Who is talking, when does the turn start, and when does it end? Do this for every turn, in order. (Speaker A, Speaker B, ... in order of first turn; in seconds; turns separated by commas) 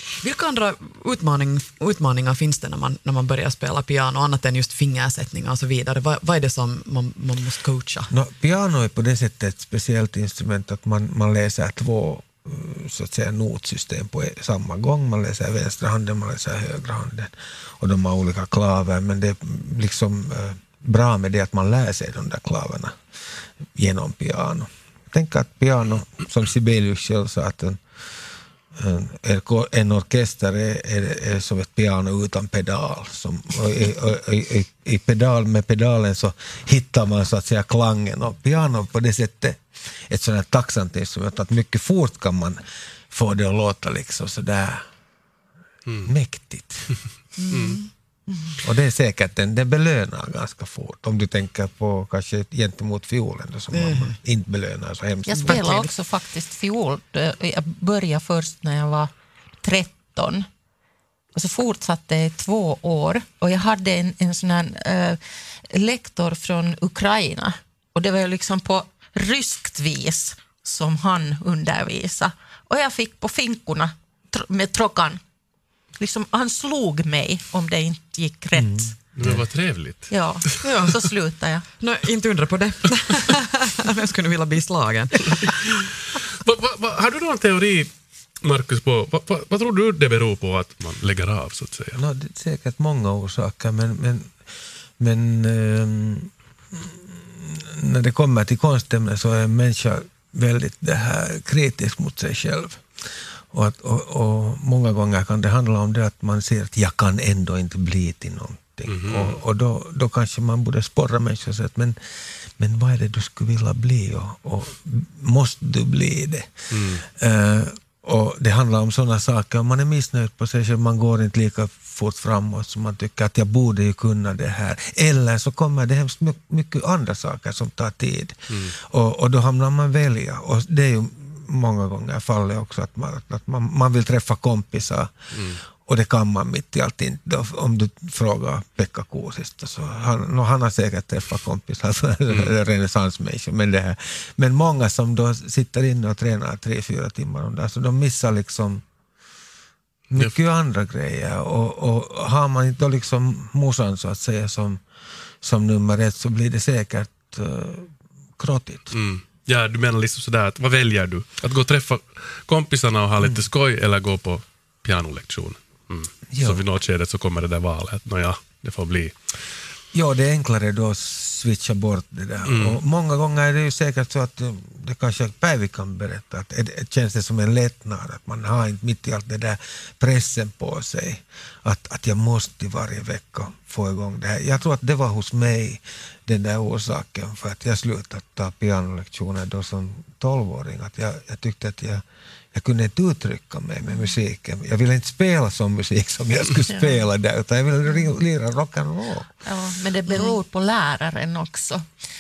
Speaker A: 0.2-8.1, Speaker B: 8.1-23.0, Speaker B: 23.7-27.8, Speaker B: 28.7-44.9, Speaker B: 46.0-46.9, Speaker A: 47.4-47.9, Speaker C: 47.5-47.8, Speaker B: 48.6-55.6, Speaker A: 53.7-54.2, Speaker D: 55.3-59.1, Speaker A: 55.4-55.9, Speaker D: 59.6-60.5, Speaker D: 61.4-75.2, Speaker D: 76.0-78.9, Speaker B: 78.5-79.4, Speaker C: 79.2-80.5, Speaker D: 80.1-81.7, Speaker A: 80.6-81.0, Speaker A: 81.8-85.8, Speaker C: 85.4-92.0, Speaker B: 91.9-94.4, Speaker B: 95.0-112.0, Speaker C: 108.9-109.4, Speaker B: 112.6-148.8, Speaker C: 116.7-117.0, Speaker C: 135.3-135.6, Speaker B: 150.1-154.8, Speaker B: 155.4-158.9, Speaker C: 158.9-169.4, Speaker B: 166.3-166.6, Speaker B: 169.9-199.4, Speaker C: 172.5-172.8, Speaker D: 196.7-196.9, Speaker D: 199.4-201.8